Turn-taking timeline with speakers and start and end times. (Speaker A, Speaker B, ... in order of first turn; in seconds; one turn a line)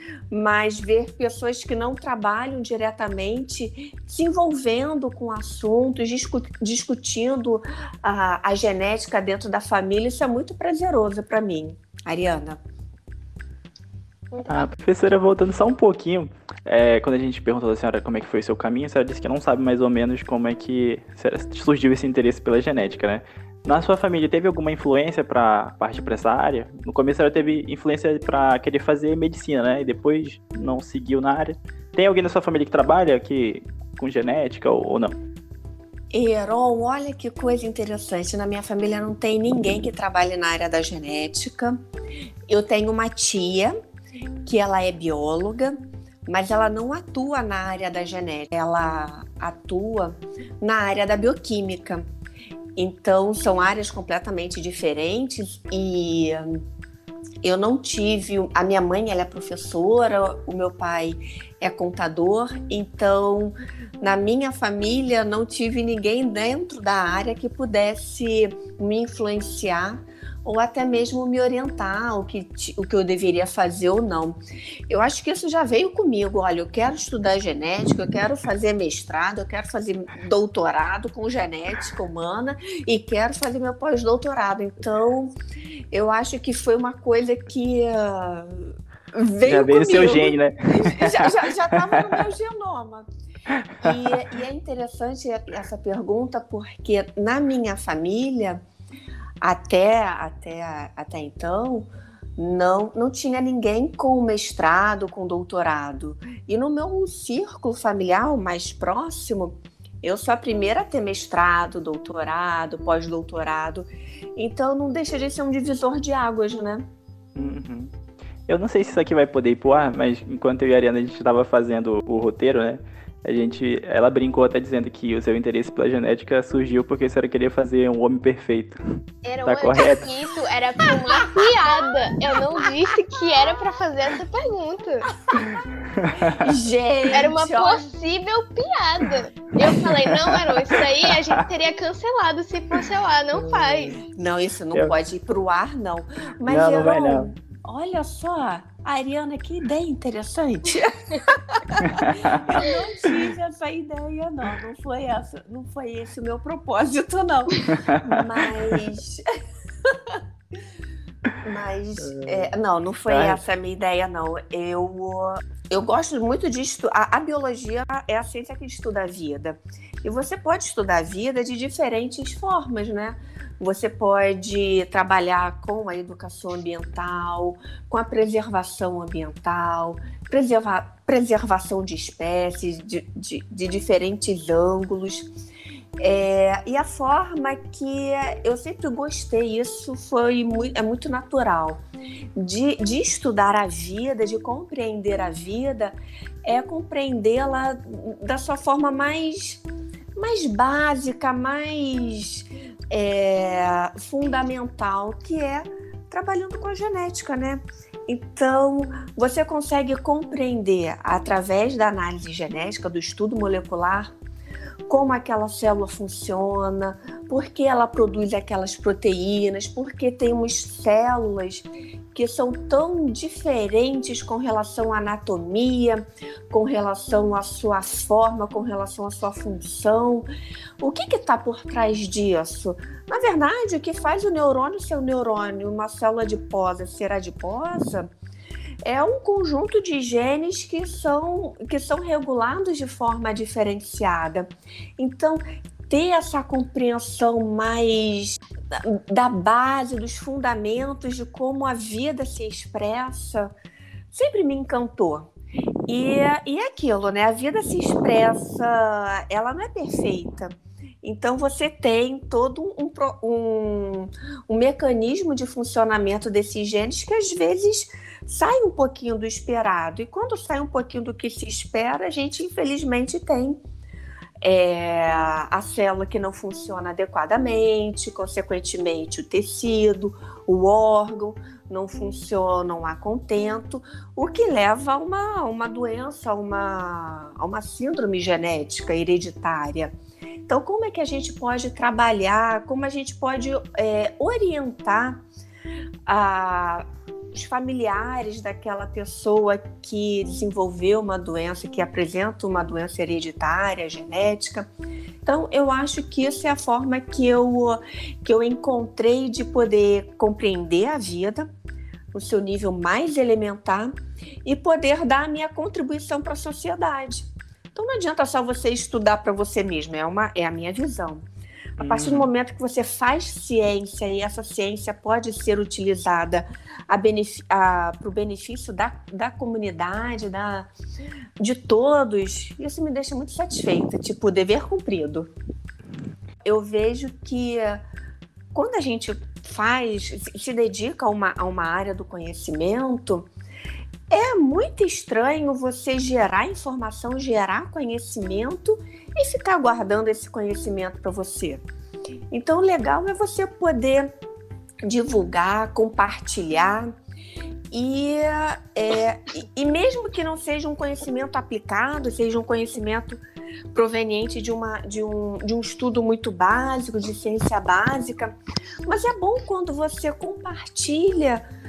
Speaker A: 0.3-12.6
Speaker B: 14.3-14.7
Speaker C: 14.4-35.2
Speaker A: 36.1-41.8
Speaker A: 42.5-43.8
Speaker A: 44.4-52.0
Speaker A: 52.8-56.6
Speaker A: 57.4-85.3
Speaker A: 85.9-93.1
Speaker C: 89.4-92.1
Speaker A: 93.8-98.6
Speaker A: 99.4-116.9
Speaker C: 117.3-117.9
Speaker C: 118.5-128.8
Speaker B: 129.2-135.4
Speaker C: 129.4-130.1
Speaker A: 135.3-135.6
Speaker C: 135.9-136.5
Speaker A: 136.2-137.8
Speaker B: 137.1-144.0
Speaker C: 139.6-141.4
Speaker A: 144.0-159.3
Speaker C: 146.4-147.3
Speaker C: 151.8-152.6
Speaker A: 159.8-160.2
Speaker A: 161.4-185.3
Speaker C: 162.1-162.4
Speaker C: 163.1-163.4
Speaker A: 186.0-191.8
Speaker A: 192.3-199.6
Speaker A: 200.2-214.1
Speaker A: 214.9-230.3
Speaker A: 230.8-238.1
Speaker A: 238.8-253.5
Speaker A: 254.1-255.3
Speaker A: 255.9-273.6
Speaker A: 274.4-289.9
Speaker A: 290.5-295.2
Speaker A: 296.1-304.7
Speaker A: 305.2-311.5
Speaker A: 312.1-321.2
Speaker C: 321.8-322.3
Speaker A: 321.8-330.7
Speaker A: 331.4-335.3
Speaker A: 336.4-337.8
Speaker A: 338.5-343.3
Speaker A: 344.1-351.6
Speaker A: 352.3-354.1
Speaker A: 354.8-356.9
Speaker A: 357.7-363.2
Speaker A: 363.7-371.4